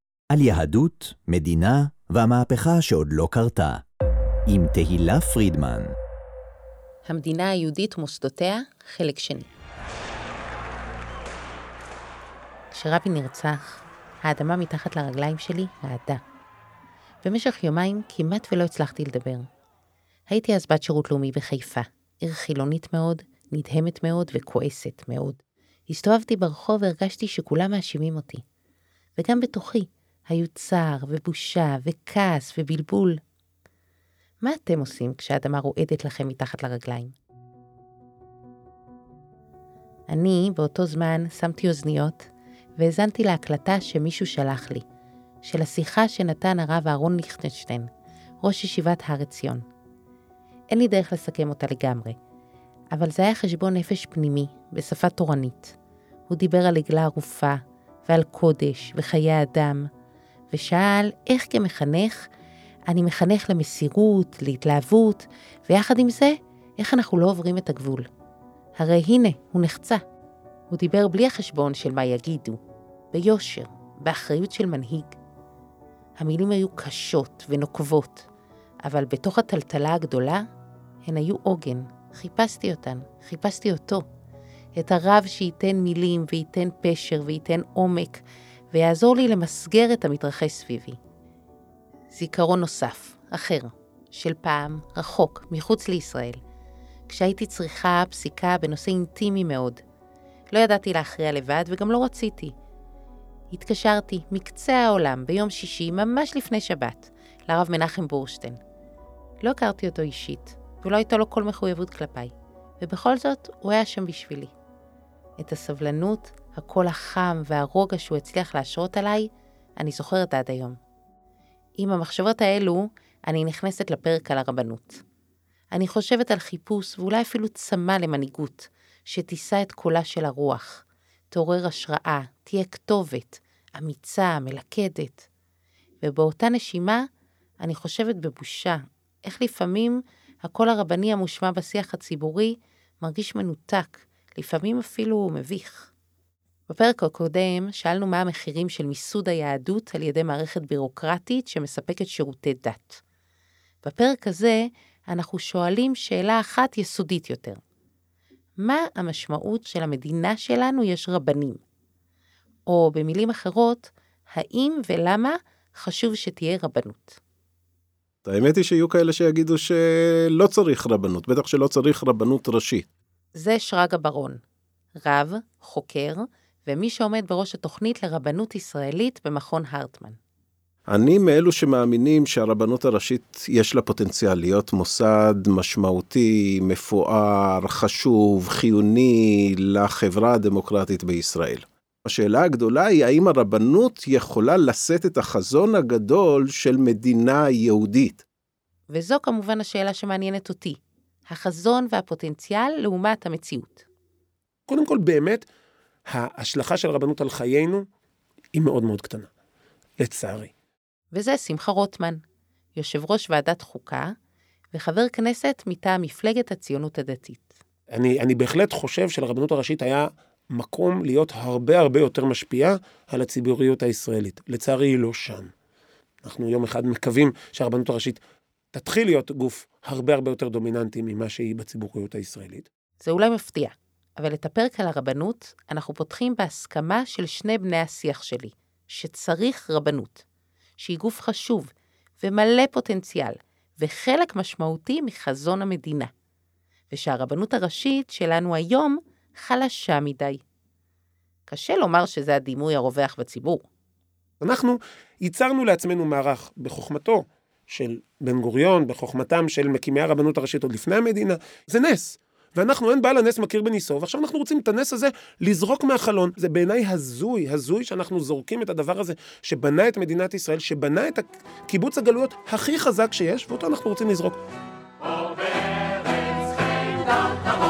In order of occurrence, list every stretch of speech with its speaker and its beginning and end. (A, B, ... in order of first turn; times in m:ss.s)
0:00.3-0:03.8 A
0:04.5-0:06.0 A
0:07.1-0:09.5 B
0:12.7-0:16.2 B
0:17.2-0:19.5 B
0:20.3-0:28.4 B
0:29.2-0:33.2 B
0:34.4-0:37.2 B
0:40.1-0:44.8 B
0:45.4-0:47.9 B
0:48.4-0:49.6 B
0:50.7-0:52.2 B
0:52.9-0:55.7 B
0:56.3-0:59.9 B
1:00.5-1:02.2 B
1:02.9-1:08.1 B
1:08.8-1:10.0 B
1:10.7-1:12.6 B
1:13.1-1:15.2 B
1:16.2-1:18.3 B
1:18.9-1:20.4 B
1:21.1-1:24.0 B
1:24.8-1:31.0 B
1:32.1-1:36.4 B
1:37.1-1:39.8 B
1:40.5-1:42.5 B
1:43.5-1:48.6 B
1:49.4-1:54.5 B
1:55.4-2:00.8 B
2:01.8-2:05.0 B
2:05.7-2:15.3 B
2:16.0-2:17.1 B
2:17.6-2:25.9 B
2:26.7-2:33.0 B
2:33.8-2:37.6 B
2:38.6-2:41.6 B
2:42.7-2:47.2 B
2:48.2-2:52.9 C
2:53.4-2:54.4 B
2:55.0-3:00.2 B
3:00.9-3:18.2 C
3:18.9-3:23.9 B
3:24.7-3:25.4 D
3:26.1-3:27.8 D
3:28.6-3:29.3 D
3:30.0-3:30.5 D
3:31.1-3:32.2 B
3:32.8-3:34.1 B
3:34.7-3:37.6 B
3:37.9-3:45.5 D
3:46.2-3:48.2 D
3:48.7-3:52.7 D
3:53.0-4:00.2 B
4:00.8-4:06.1 B
4:06.9-4:10.4 B
4:11.5-4:13.6 B
4:14.4-4:34.4 D